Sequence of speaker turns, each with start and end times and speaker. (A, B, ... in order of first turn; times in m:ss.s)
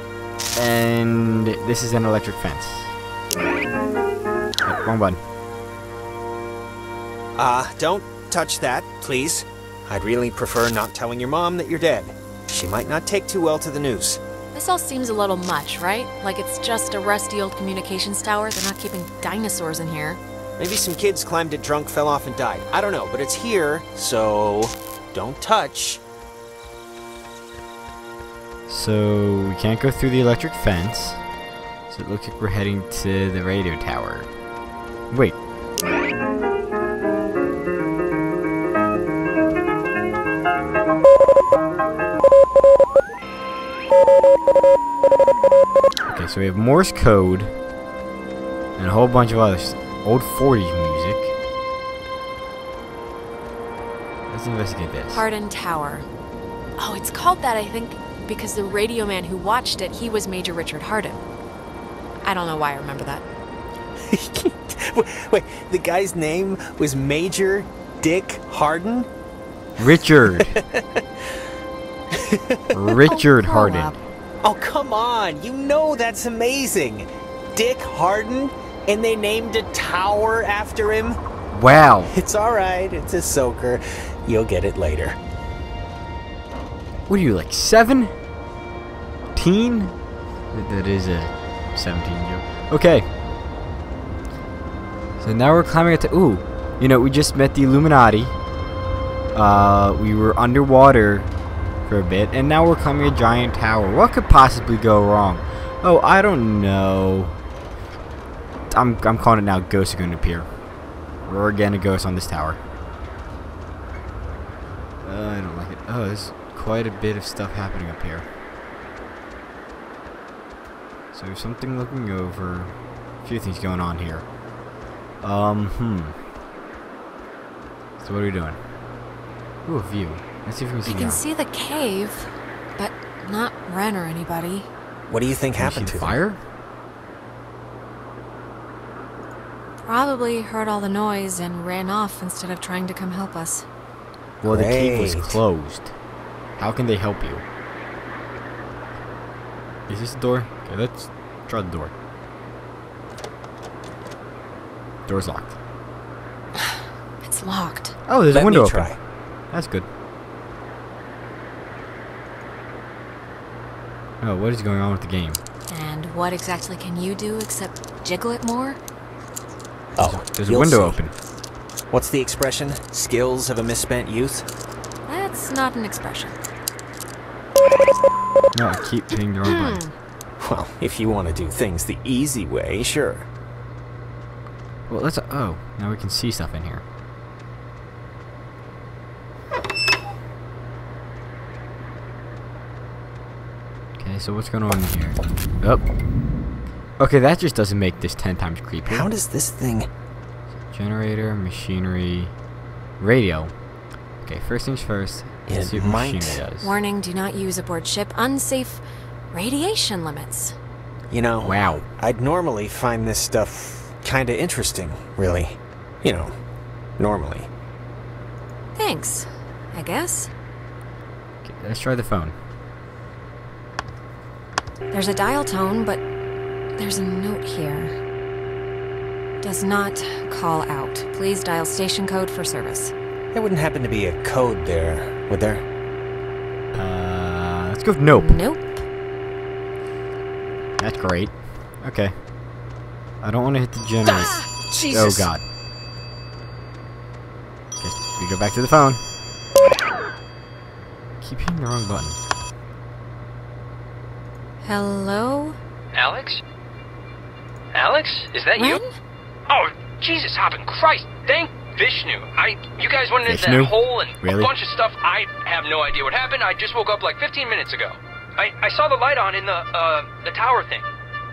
0:00.6-0:02.9 A
0:04.6-0:05.2 A
0:07.4-0:14.2 B
0:14.5-0:20.2 C
0:20.6-0:26.0 B
0:28.7-0:31.2 A
0:31.9-0:34.3 A
0:35.1-0:35.4 A
0:46.1-0:47.5 A
0:48.8-0:51.3 A
0:54.3-0:55.2 A
0:55.1-0:56.1 C
0:56.8-1:01.2 C
1:02.2-1:03.2 C
1:04.1-1:09.1 B
1:09.8-1:10.6 A
1:10.4-1:11.0 B
1:12.1-1:12.8 B
1:12.7-1:14.0 A
1:13.0-1:14.0 C
1:14.4-1:21.2 B
1:21.5-1:22.1 A
1:22.1-1:25.2 B
1:27.1-1:28.1 A
1:29.3-1:29.9 A
1:30.5-1:33.1 A
1:35.2-1:38.4 A
1:39.3-1:41.3 A
1:41.9-1:47.4 A
1:48.7-1:50.5 A
1:51.2-1:52.6 A
1:55.0-1:58.3 A
2:01.1-2:04.2 A
2:05.2-2:06.2 A
2:08.0-2:08.6 A
2:09.6-2:11.2 A
2:10.8-2:14.7 C
2:15.1-2:16.2 B
2:15.6-2:16.4 A
2:19.8-2:23.7 C
2:24.4-2:25.9 A
2:24.5-2:25.4 B
2:26.6-2:27.4 A
2:29.9-2:31.9 A
2:35.1-2:35.6 A
2:36.6-2:37.9 C
2:38.1-2:38.9 A
2:38.3-2:39.0 B
2:39.5-2:39.9 A
2:44.2-2:45.4 A
2:45.7-2:48.8 C
2:50.0-2:51.0 B
2:50.0-2:51.1 A
2:51.9-2:54.5 B
2:55.1-2:56.4 C
2:58.5-2:59.8 A
2:59.4-2:59.9 C
3:00.4-3:03.3 B
3:04.9-3:06.8 A
3:14.0-3:15.8 A
3:17.0-3:19.1 A
3:18.8-3:19.9 B
3:20.7-3:22.3 A
3:23.0-3:23.5 A
3:24.2-3:26.8 A
3:25.5-3:26.4 B
3:26.6-3:30.5 C
3:31.1-3:36.3 B
3:31.4-3:31.8 A
3:37.0-3:37.5 B
3:38.7-3:40.3 C
3:41.4-3:42.3 A
3:44.9-3:46.0 C
3:46.8-3:48.0 C
3:49.4-3:52.9 C
3:53.3-3:55.6 B
3:56.7-3:58.4 A
3:58.1-3:58.8 C
4:00.8-4:02.1 A
4:03.2-4:05.4 A
4:04.0-4:05.3 B
4:04.2-4:04.5 C
4:07.8-4:09.0 A
4:11.2-4:12.2 A
4:14.6-4:15.6 C
4:15.9-4:16.4 D
4:17.7-4:18.8 D
4:18.5-4:18.9 C
4:19.5-4:30.9 D
4:23.2-4:24.5 A